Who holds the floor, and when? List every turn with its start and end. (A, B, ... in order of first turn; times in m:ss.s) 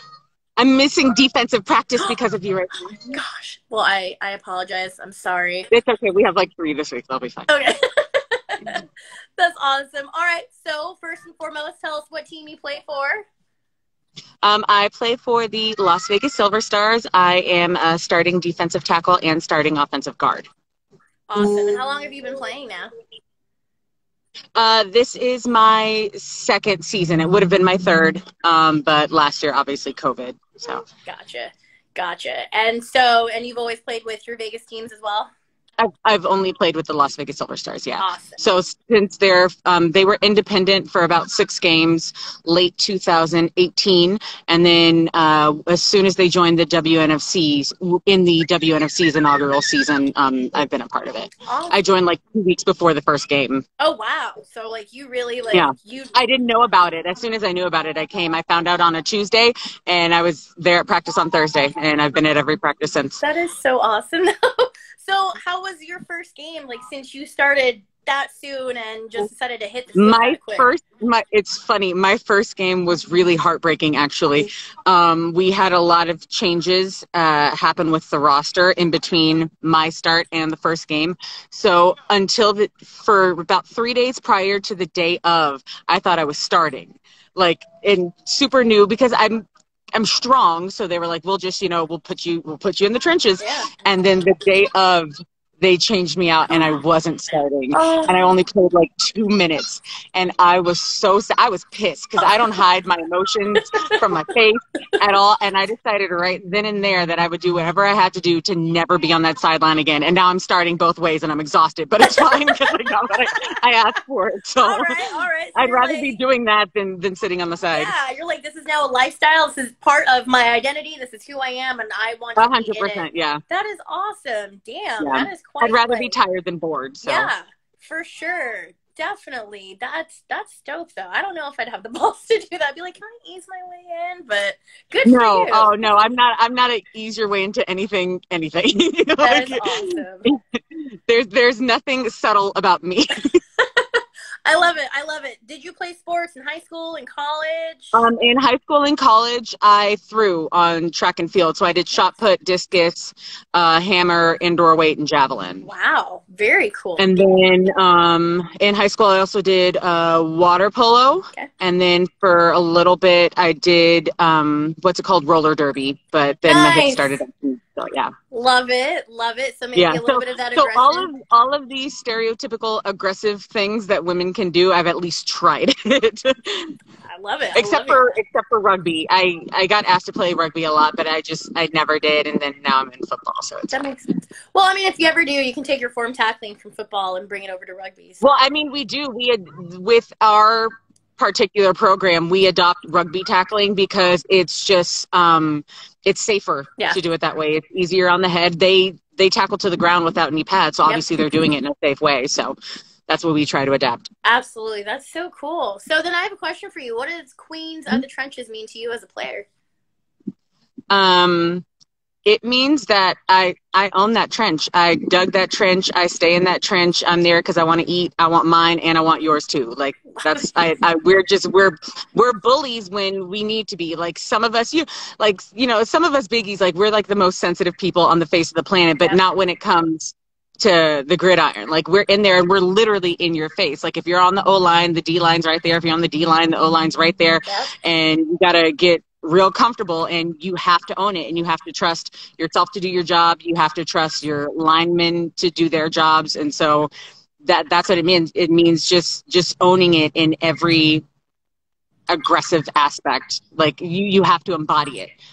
0:00.6-0:03.1 A
0:03.1-0:05.7 B
0:05.7-0:07.5 A
0:07.5-0:08.8 B
0:09.4-0:13.2 B
0:14.4-0:20.5 A
0:21.3-0:22.9 B
0:24.6-0:30.8 A
0:31.0-0:35.3 B
0:35.8-0:53.6 A
0:38.0-0:38.4 B
0:51.4-0:51.8 B
0:53.8-0:56.1 B
0:55.5-1:03.2 A
1:03.2-1:10.7 B
1:09.9-1:54.9 A
1:33.4-1:33.7 B
1:37.7-1:38.2 B
1:43.5-1:44.0 B
1:52.1-1:52.7 B
1:54.6-1:56.2 B
1:55.5-1:57.9 A
1:57.7-2:06.2 B
2:02.4-2:03.4 A
2:05.0-2:07.3 A
2:07.0-2:15.8 B
2:15.0-2:23.4 A
2:19.2-2:20.3 B
2:23.6-2:28.0 B
2:27.9-2:35.7 A
2:35.6-2:37.2 B
2:37.0-2:48.1 A
2:46.4-2:47.2 B
2:48.3-2:51.1 B
2:49.7-2:56.7 A
2:57.0-2:58.1 B
2:57.5-3:03.7 A
3:03.7-3:08.4 B
3:08.2-3:22.6 A
3:20.8-3:21.2 B
3:23.1-3:24.1 A
3:24.2-3:29.5 B
3:30.9-3:31.6 A
3:32.2-4:06.9 A
3:40.1-3:40.7 B
3:57.4-3:57.8 B
4:07.4-4:11.0 A
4:12.1-4:15.1 A